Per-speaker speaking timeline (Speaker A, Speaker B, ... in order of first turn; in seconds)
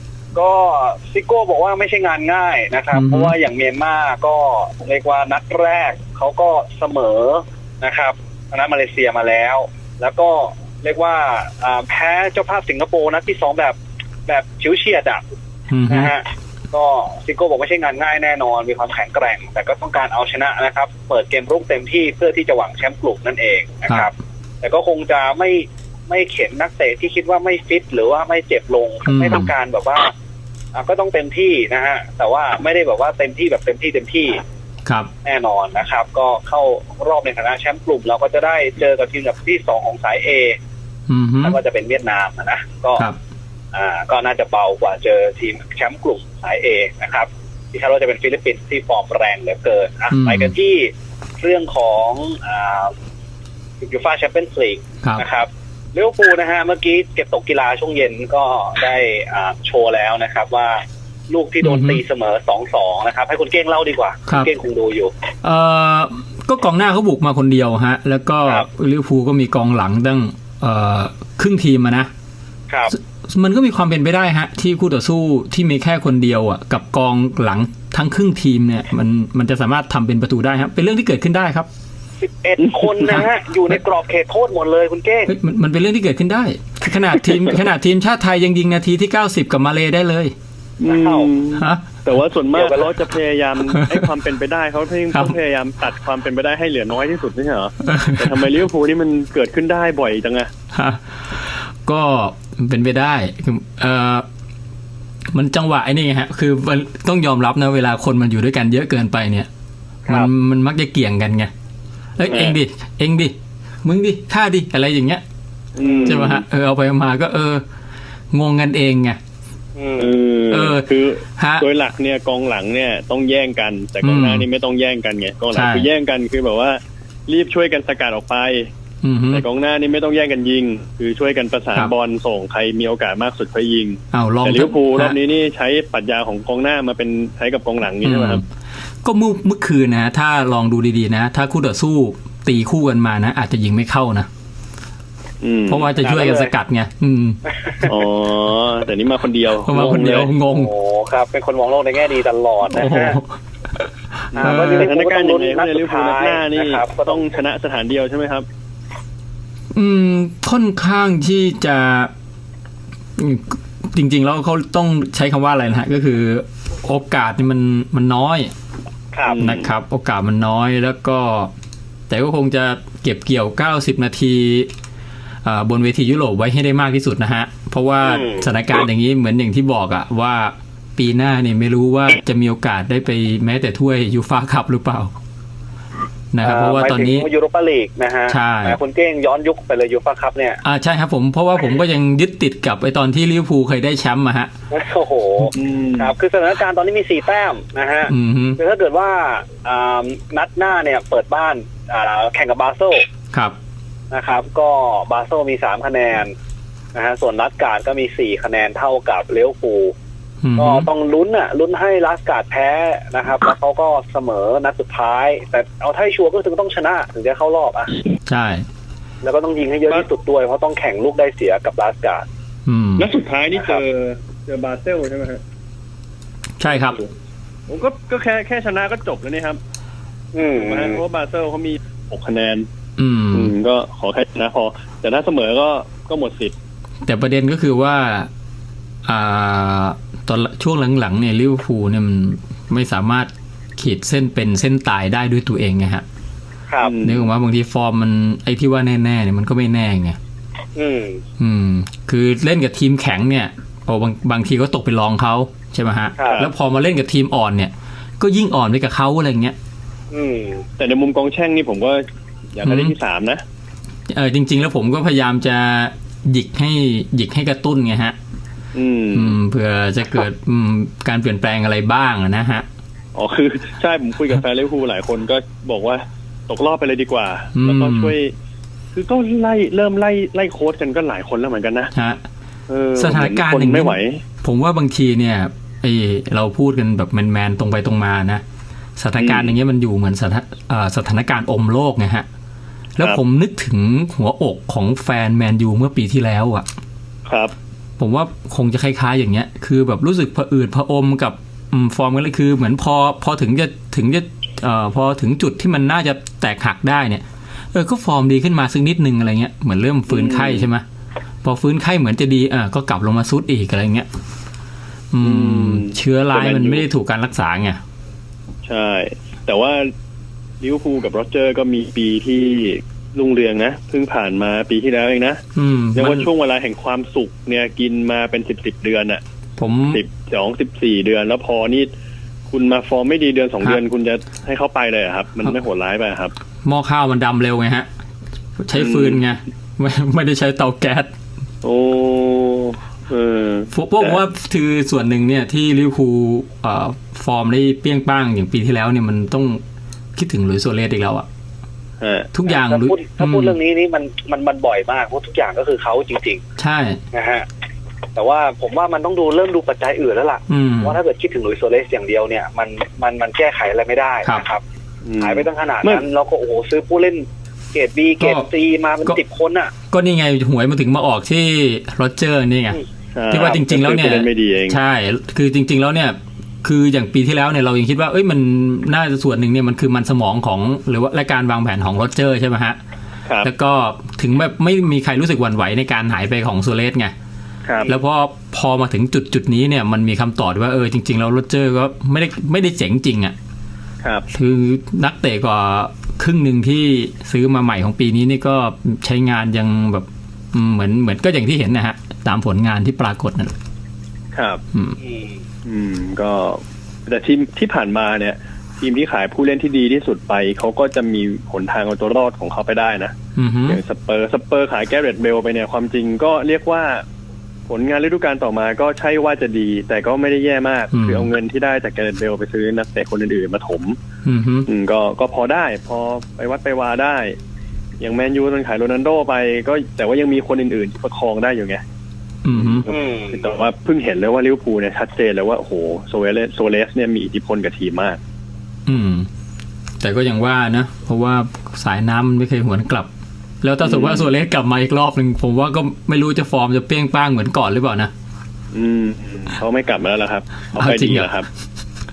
Speaker A: 0.3-15.2, 15.9-30.1, 30.7-34.4, 35.2-40.6, 41.4-43.0, 43.7-52.9, 53.8-65.1, 82.2-85.3, 90.9-91.3, 92.5-92.9, 115.8-116.2, 119.8-120.1, 146.0-146.5, 150.4-153.2, 154.4-157.2, 169.1-169.4, 178.0-178.5, 186.4-190.6, 194.7-203.0, 204.1-206.3, 206.9-209.9, 210.6-218.0, 219.2-222.2, 223.6-223.8, 230.3-231.0, 250.8-251.2, 260.1-260.6, 352.5-356.4, 357.1-357.4, 358.1-364.6, 365.2-369.7, 405.0-405.3, 432.9-433.5
Speaker B: 2.9-3.3, 15.7-16.1, 29.1-29.5, 41.1-41.6, 50.1-50.5, 61.6-62.0, 65.4-72.1, 73.3-81.7, 85.3-90.3, 91.6-92.0, 97.9-98.4, 100.7-104.2, 105.3-109.5, 110.1-111.5, 112.2-115.2, 116.0-117.6, 118.3-119.2, 120.5-120.9, 121.4-121.7, 124.0-124.5, 125.5-125.9, 129.0-129.4, 134.1-135.2, 138.0-138.4, 139.0-144.3, 145.7-147.4, 149.6-150.7, 152.7-153.8, 154.3-154.9, 159.7-162.1, 163.2-168.5, 169.4-171.5, 172.1-174.7, 175.4-185.1, 186.3-187.3, 188.3-188.8, 190.6-194.5, 198.1-198.6, 210.4-210.9, 218.3-218.7, 222.7-223.1, 226.6-227.0, 233.0-233.5, 237.1-238.3, 239.0-246.0, 247.0-250.2, 251.4-259.6, 262.6-262.9, 264.1-268.1, 269.1-272.6, 277.6-278.1, 281.9-282.2, 283.0-288.4, 289.0-292.2, 293.0-296.6, 298.0-310.8, 311.4-314.1, 315.1-317.8, 325.5-326.3, 329.6-330.0, 336.6-337.9, 338.6-341.1, 343.7-349.6, 350.2-351.2, 352.3-353.6, 356.6-357.0, 360.5-361.0, 368.2-368.4, 369.9-372.8, 373.3-382.8, 383.4-387.1, 387.9-393.3, 394.3-403.5, 413.4-413.8, 420.9-421.3, 424.2-424.7, 432.4-432.9, 438.9-439.3, 440.0-443.1, 443.6-448.1, 450.8-451.3
Speaker C: 82.7-83.1, 90.8-100.5, 112.3-112.5, 115.8-116.4, 120.0-128.7, 129.3-138.4, 145.4-145.9, 147.8-150.3, 154.3-158.4, 169.2-169.7, 195.5-196.1, 223.0-225.4, 226.7-227.1, 227.7-229.6, 230.5-232.7, 233.3-236.5, 246.8-247.3, 260.8-262.0, 262.5-263.4, 268.7-269.4, 273.1-278.3, 278.9-281.9, 282.7-284.2, 289.2-289.5, 297.3-297.5, 310.1-310.7, 315.2-316.9, 318.6-319.9, 320.6-325.4, 325.9-329.2, 329.9-331.9, 332.5-336.3, 338.7-339.2, 341.6-344.2, 352.0-352.3, 365.0-366.0, 373.1-374.8, 387.6-387.9, 404.3-404.6, 405.6-413.1, 413.7-417.0, 417.7-424.0, 424.7-427.4, 428.0-431.8, 432.5-438.2, 443.8-444.3, 448.7-451.5